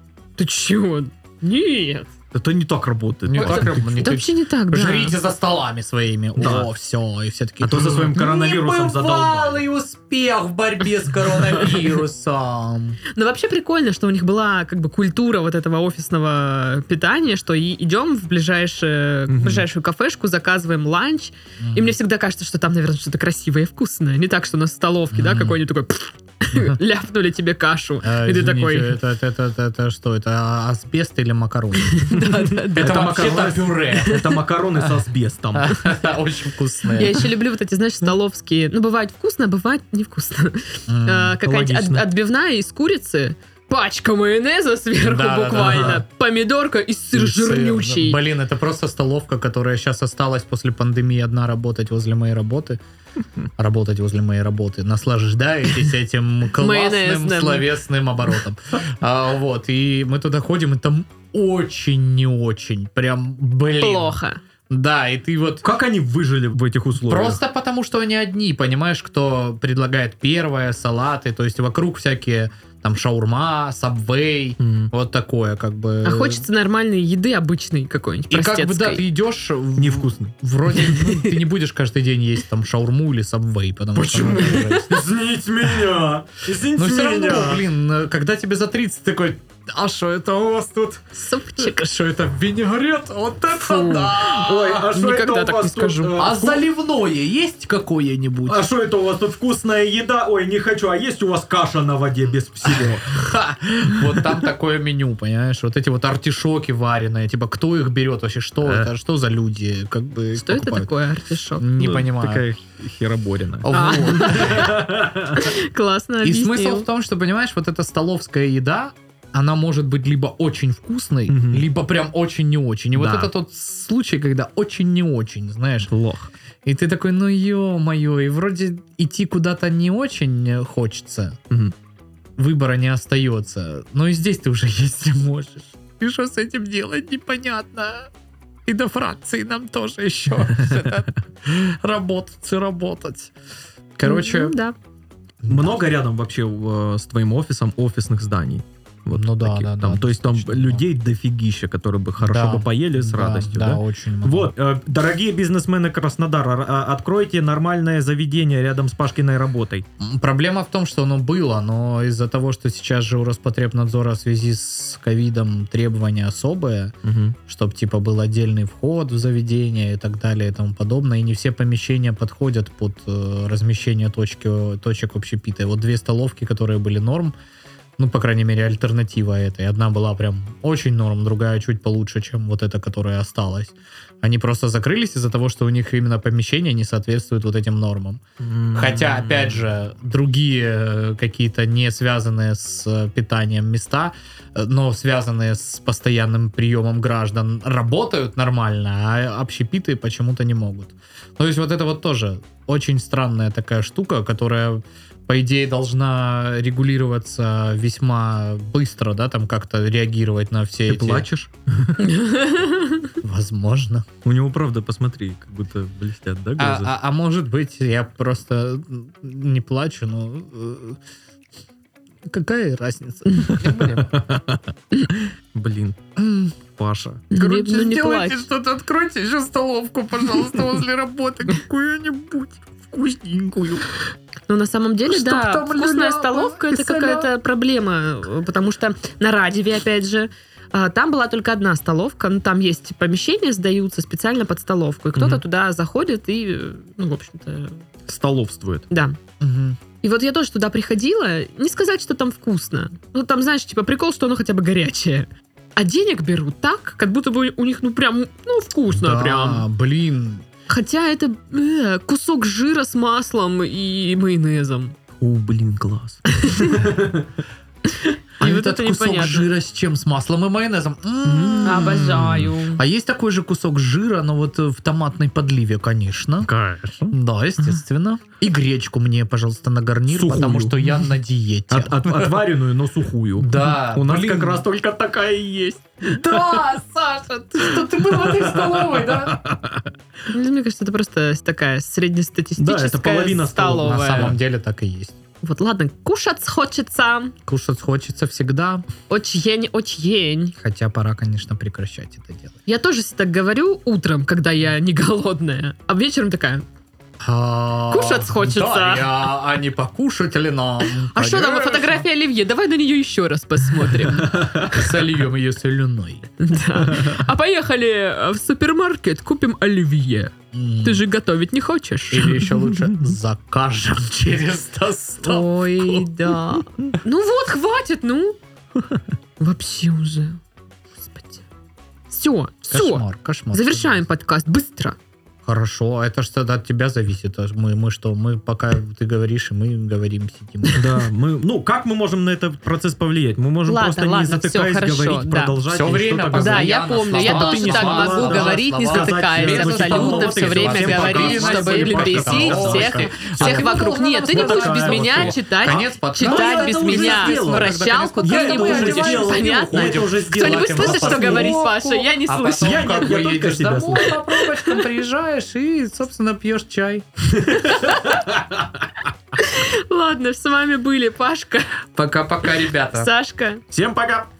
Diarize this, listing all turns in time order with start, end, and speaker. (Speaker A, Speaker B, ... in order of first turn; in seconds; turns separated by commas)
Speaker A: 0.4-2.1, Speaker B: 2.3-3.9, Speaker C: 3.3-13.0, Speaker A: 3.3-5.2, Speaker B: 6.4-6.7, Speaker B: 7.6-9.6, Speaker A: 13.1-29.0, Speaker B: 19.3-19.6, Speaker C: 21.6-21.9, Speaker C: 25.1-25.6, Speaker C: 26.5-26.8, Speaker C: 28.0-34.9, Speaker A: 31.9-33.1, Speaker B: 32.6-35.8, Speaker C: 35.5-37.3, Speaker A: 37.0-48.2, Speaker C: 40.9-41.4, Speaker B: 41.4-42.1, Speaker C: 45.0-46.0, Speaker B: 45.6-46.0, Speaker C: 47.1-52.8, Speaker C: 53.6-64.2, Speaker A: 56.6-57.7, Speaker A: 63.8-64.4, Speaker C: 64.7-65.7, Speaker B: 65.6-67.4, Speaker C: 67.0-76.4, Speaker B: 74.6-74.9, Speaker A: 76.0-79.0, Speaker C: 78.3-85.1, Speaker B: 79.8-80.3, Speaker B: 83.9-87.6, Speaker C: 86.7-94.8, Speaker A: 91.1-91.8, Speaker A: 93.6-96.2, Speaker B: 94.1-96.6, Speaker C: 96.2-98.6, Speaker B: 98.5-103.2, Speaker C: 102.6-110.9, Speaker B: 108.6-108.9, Speaker A: 110.3-111.7, Speaker C: 111.6-112.4, Speaker B: 111.8-115.4, Speaker C: 113.6-114.8, Speaker A: 113.7-116.9, Speaker C: 116.2-125.9, Speaker B: 121.3-121.7, Speaker B: 123.0-123.3, Speaker B: 125.9-126.3, Speaker C: 126.6-131.4, Speaker C: 132.4-138.1, Speaker C: 138.7-143.3, Speaker C: 144.0-144.5, Speaker A: 144.0-144.8, Speaker C: 145.4-145.8, Speaker B: 145.5-159.8, Speaker C: 149.1-150.8, Speaker C: 152.2-154.5, Speaker C: 160.0-166.9, Speaker B: 167.0-167.4, Speaker C: 167.5-177.3, Speaker C: 178.0-188.2, Speaker B: 188.4-189.7, Speaker C: 188.7-211.3, Speaker B: 210.9-212.1, Speaker A: 212.0-213.1, Speaker C: 213.2-214.1, Speaker B: 214.2-216.9, Speaker C: 216.6-221.0, Speaker C: 222.2-224.1, Speaker B: 223.5-226.0, Speaker C: 226.2-226.6, Speaker B: 226.8-227.2, Speaker C: 227.3-233.9, Speaker A: 227.3-228.4, Speaker A: 234.5-247.8, Speaker C: 235.1-237.3, Speaker B: 245.1-245.4, Speaker B: 248.1-248.9, Speaker A: 248.9-249.2, Speaker C: 249.4-249.8, Speaker A: 250.0-259.6, Speaker C: 258.9-260.4, Speaker A: 260.7-264.9, Speaker B: 265.2-267.3, Speaker A: 266.3-266.8, Speaker A: 267.9-269.5, Speaker C: 268.4-276.5, Speaker B: 271.2-272.5, Speaker A: 271.6-272.8, Speaker B: 276.4-277.8, Speaker C: 277.1-282.4, Speaker B: 280.1-281.1, Speaker B: 281.7-286.6, Speaker C: 283.4-284.6, Speaker C: 286.0-289.4, Speaker B: 287.8-289.9, Speaker A: 290.3-294.3, Speaker B: 292.6-294.4, Speaker C: 293.8-295.2, Speaker A: 295.4-297.3, Speaker C: 297.5-298.8, Speaker A: 299.1-300.6, Speaker C: 300.6-302.6, Speaker A: 302.7-306.6, Speaker C: 307.2-312.1, Speaker A: 307.9-309.1, Speaker A: 311.1-314.6, Speaker B: 314.2-314.8, Speaker C: 314.7-316.3, Speaker A: 316.4-320.3, Speaker C: 320.5-321.1, Speaker A: 320.8-322.4, Speaker C: 322.1-326.0, Speaker A: 325.2-328.4, Speaker A: 329.4-330.4, Speaker A: 331.0-331.4, Speaker A: 332.1-334.9, Speaker C: 332.7-334.0, Speaker C: 335.4-340.9, Speaker B: 340.7-361.6, Speaker A: 343.6-345.6, Speaker C: 345.7-367.1, Speaker A: 346.3-363.1, Speaker B: 362.6-364.2, Speaker A: 364.4-364.8, Speaker B: 367.3-368.8, Speaker A: 367.6-368.2, Speaker A: 369.4-371.8, Speaker C: 371.9-373.1, Speaker A: 372.9-373.6, Speaker B: 373.7-374.3